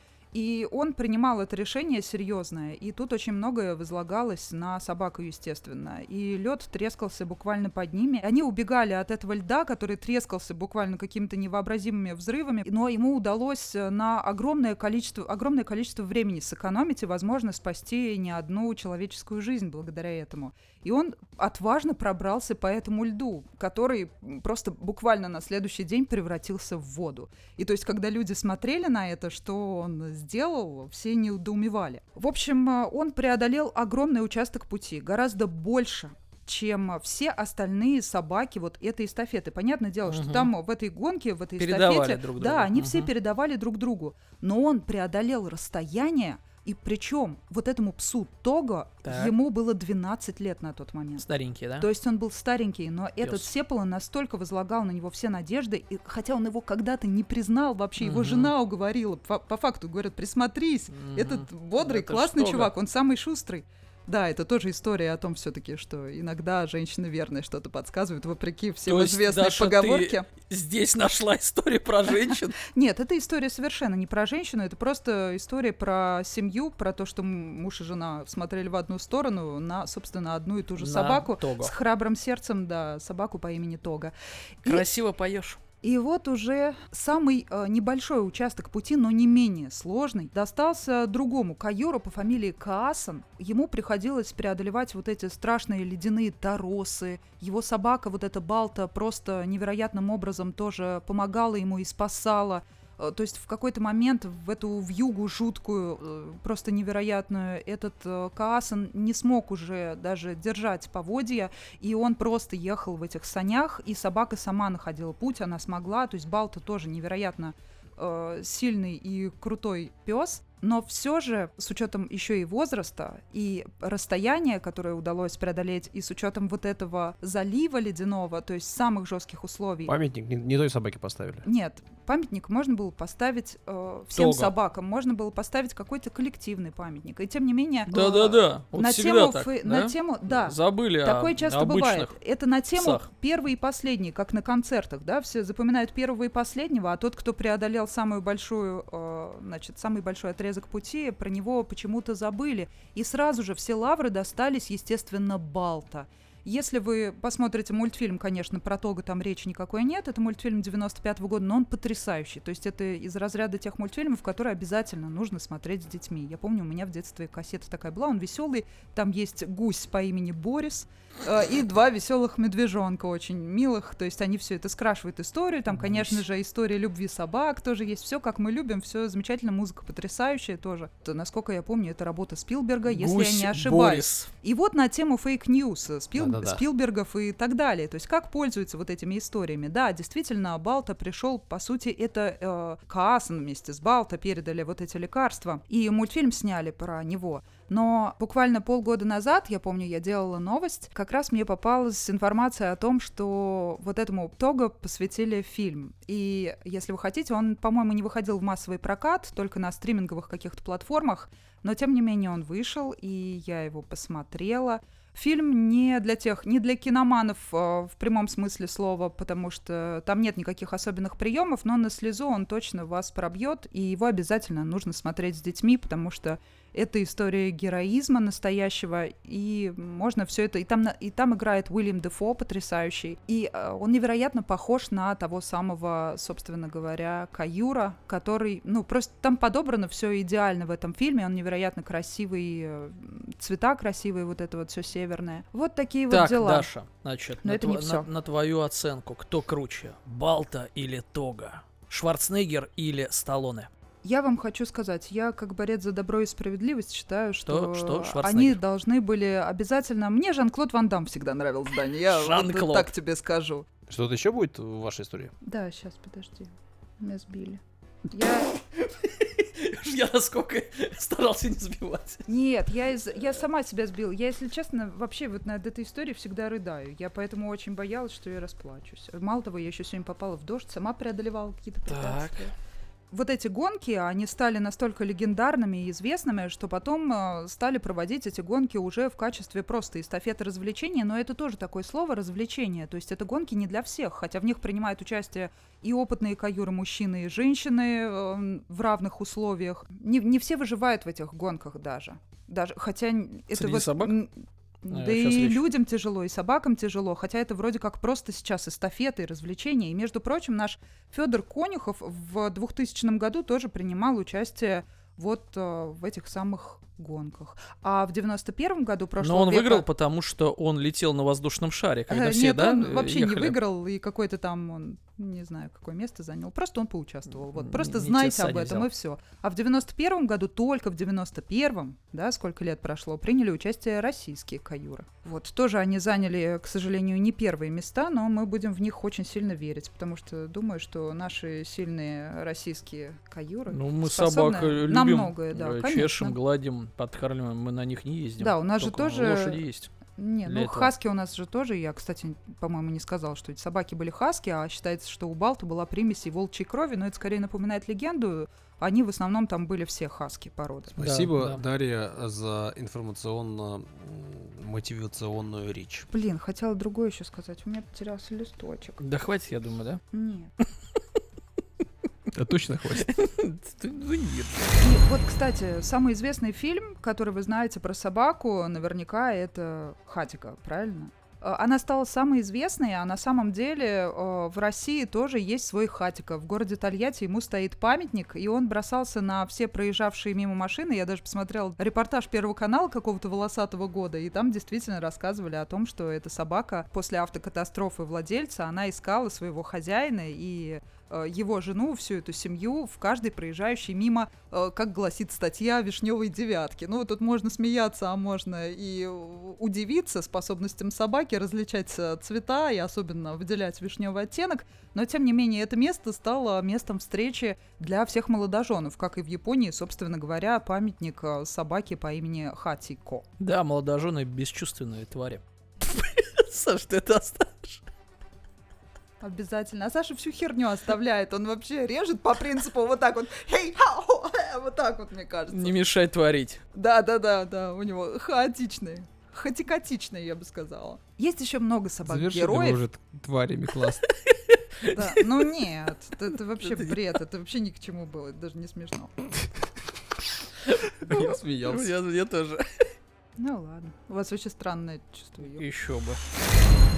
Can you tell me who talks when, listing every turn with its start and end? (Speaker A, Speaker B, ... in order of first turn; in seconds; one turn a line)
Speaker A: 0.3-51.2
Speaker B: 40.1-40.5
Speaker B: 41.6-43.1
Speaker B: 49.0-49.3
Speaker B: 51.2-51.9
Speaker A: 51.8-70.3
Speaker B: 53.2-53.5
Speaker B: 58.0-58.5
Speaker B: 60.9-62.7
Speaker B: 68.8-72.5
Speaker A: 72.1-84.8
Speaker B: 80.8-81.7
Speaker B: 84.6-85.6
Speaker A: 85.8-129.9
Speaker C: 129.8-131.4
Speaker A: 131.4-246.7
Speaker B: 134.1-134.5
Speaker B: 137.9-142.1
Speaker B: 142.8-143.1
Speaker B: 175.7-176.2
Speaker B: 182.8-184.3
Speaker C: 186.2-186.6
Speaker B: 246.1-253.7
Speaker A: 247.4-248.1
Speaker A: 254.0-263.7
Speaker B: 257.4-258.6
Speaker B: 262.1-262.9
Speaker C: 263.9-265.3
Speaker A: 265.4-267.6
Speaker A: 268.1-268.5
Speaker B: 268.5-272.2
Speaker A: 272.3-282.5
Speaker B: 281.9-282.5
Speaker A: 283.1-304.3
Speaker B: 303.5-304.1
Speaker A: 304.8-319.8
Speaker B: 304.9-305.6
Speaker B: 319.2-323.6
Speaker A: 322.1-346.4
Speaker B: 327.5-328.9
Speaker B: 343.7-349.9
Speaker A: 348.4-349.6
Speaker A: 350.2-361.0
Speaker B: 350.4-350.9
Speaker C: 360.9-366.1
Speaker B: 361.0-361.6
Speaker A: 366.1-369.0
Speaker B: 369.0-370.0
Speaker A: 370.1-370.5
Speaker C: 372.3-373.1
Speaker B: 372.9-374.8
Speaker A: 374.8-423.3
Speaker B: 423.4-427.8
Speaker A: 429.2-435.8
Speaker B: 435.5-436.6
Speaker A: 436.7-442.8
Speaker C: 442.0-444.1
Speaker B: 444.1-445.3
Speaker A: 444.9-449.1
Speaker B: 446.6-446.9
Speaker B: 450.6-452.9
Speaker C: 451.0-451.9
Speaker A: 453.4-455.6
Speaker B: 455.4-456.2